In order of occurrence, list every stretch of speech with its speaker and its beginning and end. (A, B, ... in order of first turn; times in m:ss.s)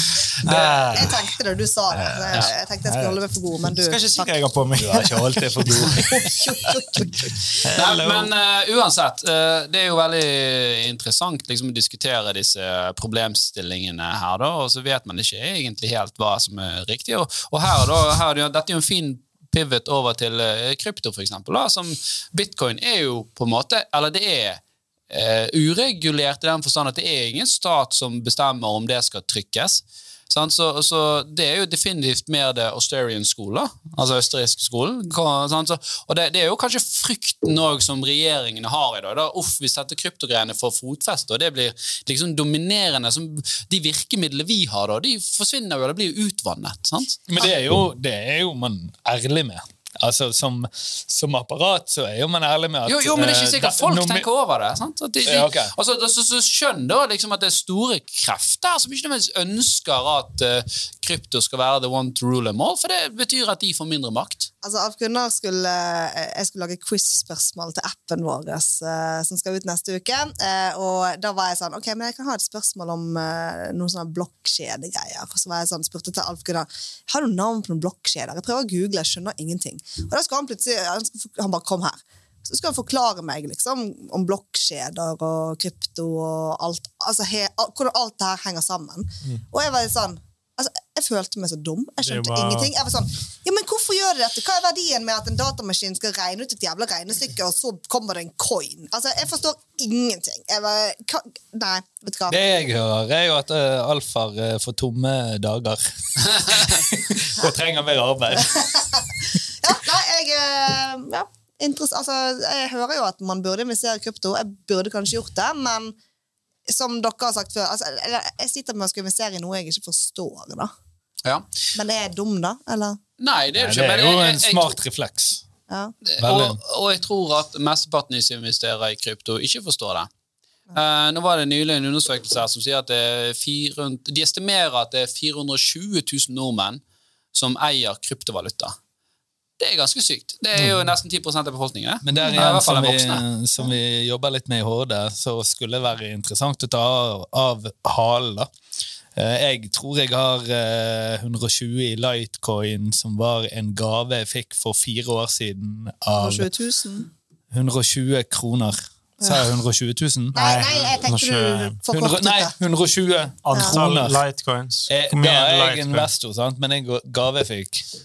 0:00.4-0:01.3 A
0:00.4-0:04.3 B
0:01.9-0:03.2 A
0:03.7-0:06.4 A
0:04.8-0:06.7 C
0:05.9-0:07.6 B
0:07.6-0:08.3 A
0:07.7-0:47.2 D
0:47.3-0:54.2 C
0:52.8-1:04.5 D
0:55.2-0:55.7 C
1:04.6-1:42.4 B
1:32.0-1:32.7 A
1:42.3-1:49.0 C
1:48.4-1:56.0 B
1:56.7-2:00.7 B
2:01.7-2:03.0 B
2:03.2-2:04.7 D
2:03.6-2:05.4 C
2:05.7-2:05.9 B
2:06.0-2:10.1 D
2:06.2-2:06.6 C
2:10.7-2:16.8 D
2:17.3-2:18.7 D
2:19.6-2:23.2 D
2:22.0-2:28.5 C
2:29.2-2:36.5 C
2:36.2-2:37.1 B
2:37.5-2:40.4 C
2:39.2-2:39.5 B
2:40.3-2:41.8 A
2:40.3-2:42.5 B
2:41.9-2:44.2 C
2:43.4-2:46.1 A
2:43.5-2:43.8 B
2:44.9-2:47.8 C